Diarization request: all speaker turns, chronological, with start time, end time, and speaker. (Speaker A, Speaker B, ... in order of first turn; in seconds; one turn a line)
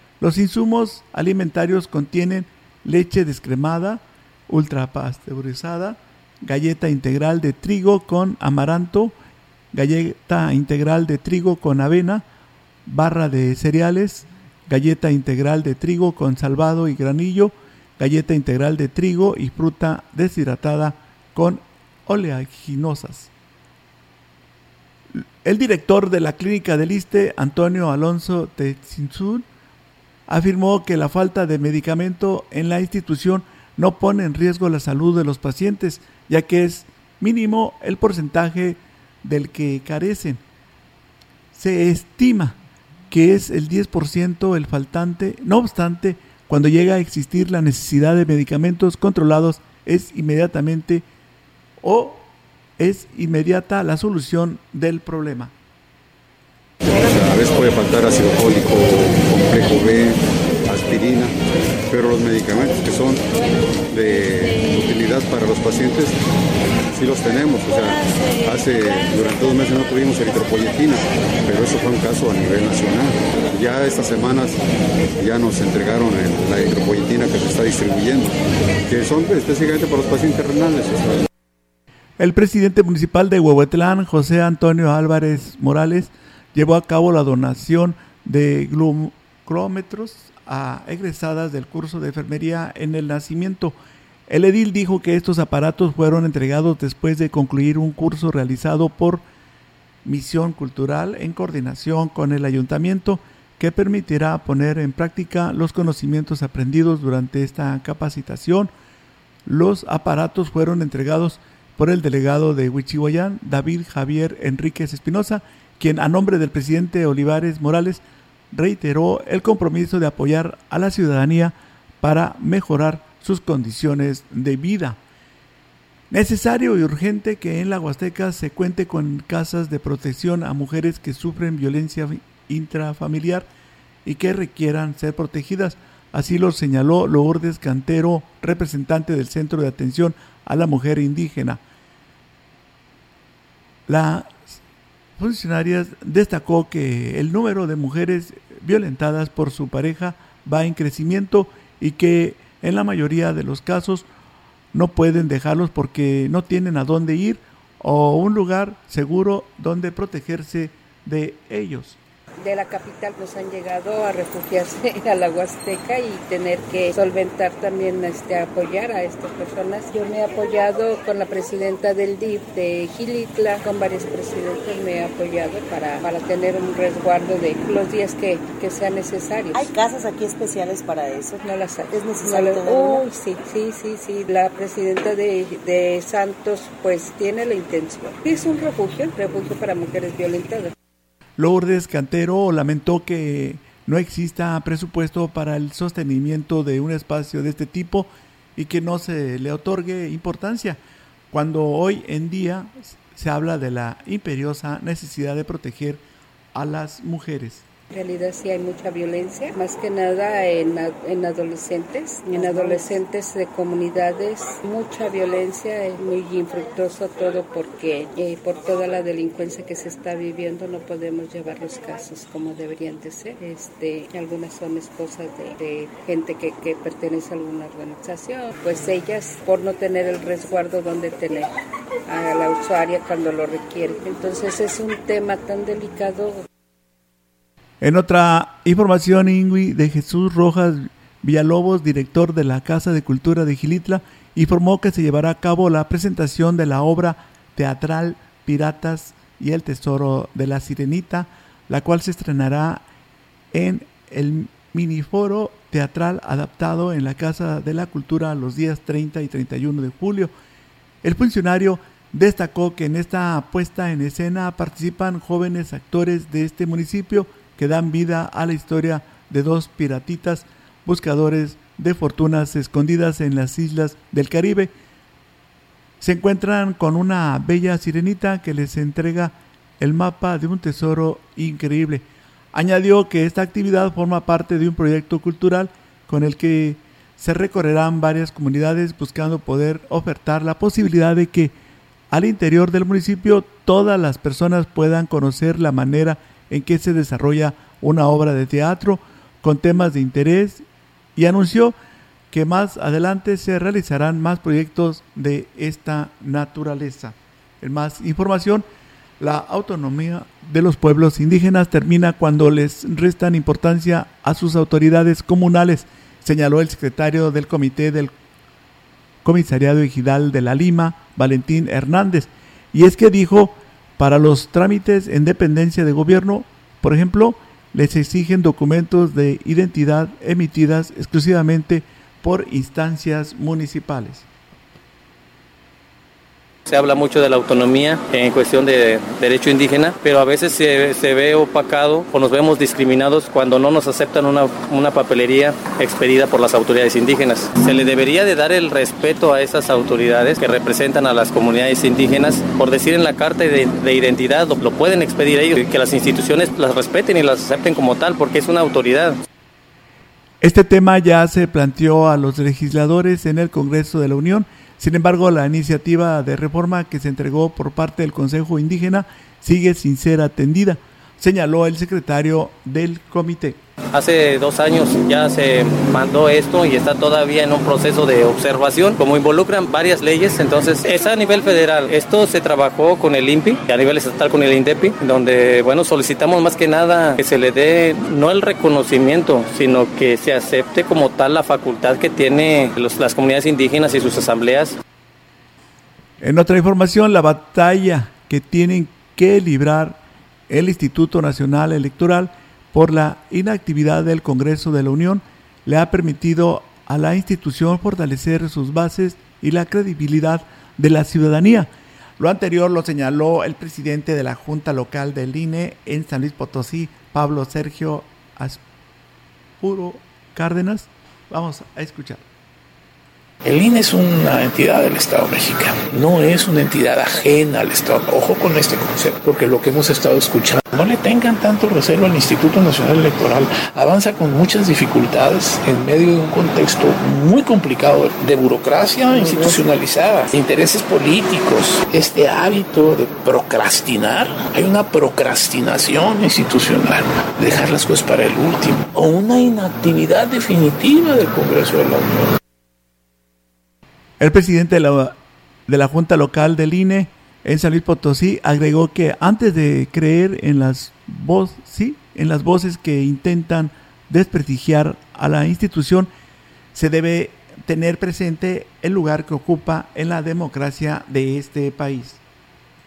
Speaker A: 0.2-9.2
Speaker A: 9.7-12.2
Speaker A: 12.9-23.3
Speaker A: 25.1-29.4
Speaker A: 30.3-40.4
Speaker A: 41.5-42.6
Speaker A: 43.1-51.0
Speaker A: 51.8-55.5
Speaker B: 56.9-61.3
Speaker B: 61.9-63.2
Speaker B: 63.9-66.2
Speaker B: 66.9-74.6
Speaker B: 75.2-81.2
Speaker A: 82.2-93.8
Speaker A: 94.3-99.2
Speaker A: 100.0-108.7
Speaker A: 109.5-125.0
Speaker A: 126.1-133.5
Speaker A: 134.1-141.6
Speaker A: 143.9-144.6
Speaker A: 145.2-154.1
Speaker A: 154.7-162.0
Speaker C: 162.4-179.7
Speaker D: 179.5-183.1
Speaker C: 181.4-190.7
Speaker A: 191.4-200.8
Speaker A: 201.3-206.0
Speaker A: 206.5-207.7
Speaker C: 207.9-231.5
Speaker D: 212.3-212.7
Speaker C: 232.1-236.4
Speaker A: 237.8-252.8
Speaker A: 253.5-260.3
Speaker A: 261.0-274.7
Speaker A: 276.0-291.6
Speaker A: 292.1-300.6
Speaker A: 301.2-301.8
Speaker A: 302.3-308.7
Speaker A: 309.2-318.1
Speaker A: 319.2-334.3
Speaker E: 336.7-359.1
Speaker A: 360.4-373.6
Speaker E: 373.9-394.8
Speaker A: 396.2-418.6
Speaker A: 419.6-422.2
Speaker F: 423.4-452.3
Speaker A: 454.2-466.1
Speaker A: 466.8-472.2